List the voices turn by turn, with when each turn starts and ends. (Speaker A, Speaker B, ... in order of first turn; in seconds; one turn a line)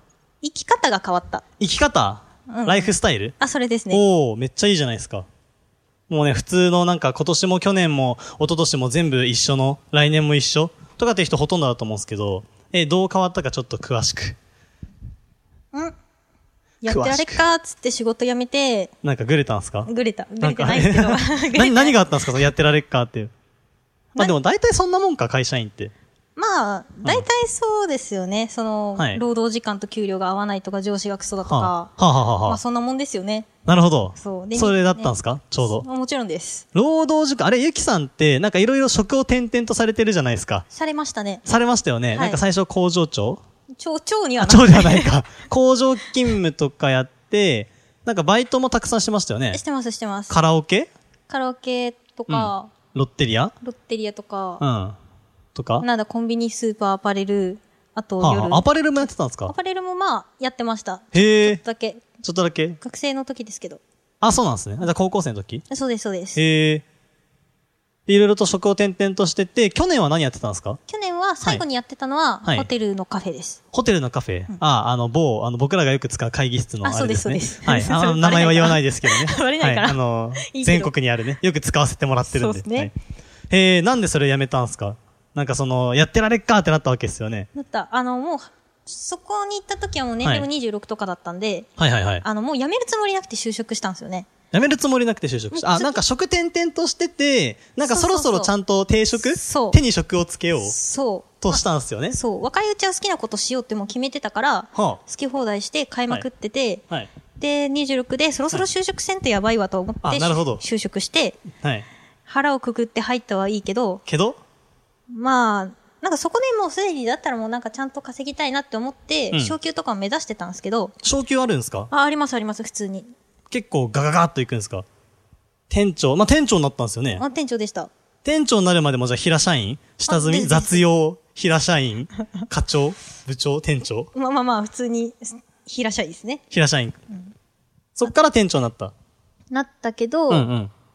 Speaker A: 0.4-1.4
Speaker B: 1.6-3.4
Speaker A: 2.5-4.0
Speaker B: 3.9-5.3
Speaker B: 6.1-14.4
Speaker A: 16.8-18.9
Speaker B: 16.9-17.4
Speaker B: 19.0-19.9
Speaker A: 19.9-22.0
Speaker B: 20.4-23.3
Speaker B: 24.1-25.9
Speaker A: 26.4-31.9
Speaker B: 29.0-29.2
Speaker B: 31.5-32.6
Speaker A: 32.5-33.5
Speaker B: 33.7-35.9
Speaker A: 34.1-36.6
Speaker B: 36.7-40.7
Speaker A: 40.7-41.4
Speaker B: 41.5-43.4
Speaker A: 42.1-42.4
Speaker A: 43.8-45.2
Speaker B: 44.4-49.6
Speaker A: 49.5-50.4
Speaker B: 50.3-50.9
Speaker A: 51.3-52.7
Speaker B: 52.3-53.5
Speaker A: 53.6-54.6
Speaker B: 54.6-55.0
Speaker B: 55.5-55.9
Speaker A: 55.8-58.6
Speaker B: 58.2-59.5
Speaker A: 59.5-62.1
Speaker B: 61.1-61.6
Speaker B: 62.2-62.8
Speaker A: 62.8-63.8
Speaker B: 64.2-65.7
Speaker A: 65.7-66.4
Speaker B: 66.4-66.8
Speaker B: 68.1-70.8
Speaker A: 70.9-73.6
Speaker B: 72.4-72.7
Speaker B: 73.7-82.9
Speaker A: 76.8-80.9
Speaker A: 82.3-82.9
Speaker B: 83.5-87.5
Speaker A: 87.5-91.7
Speaker B: 90.2-90.5
Speaker B: 91.8-92.2
Speaker A: 92.2-94.3
Speaker B: 94.5-100.8
Speaker A: 95.5-96.0
Speaker A: 97.8-98.5
Speaker A: 99.2-99.8
Speaker A: 100.6-106.8
Speaker B: 101.4-102.2
Speaker B: 104.8-105.0
Speaker A: 107.4-111.4
Speaker B: 110.0-110.6
Speaker A: 112.3-114.0
Speaker B: 114.1-114.4
Speaker A: 115.1-121.0
Speaker B: 119.3-119.6
Speaker B: 121.0-121.9
Speaker A: 121.9-123.1
Speaker B: 123.5-124.8
Speaker B: 125.7-127.2
Speaker A: 127.2-127.9
Speaker B: 128.2-134.1
Speaker A: 130.1-130.8
Speaker A: 134.2-136.4
Speaker B: 136.5-137.0
Speaker B: 138.0-138.9
Speaker A: 139.5-140.5
Speaker B: 140.3-140.7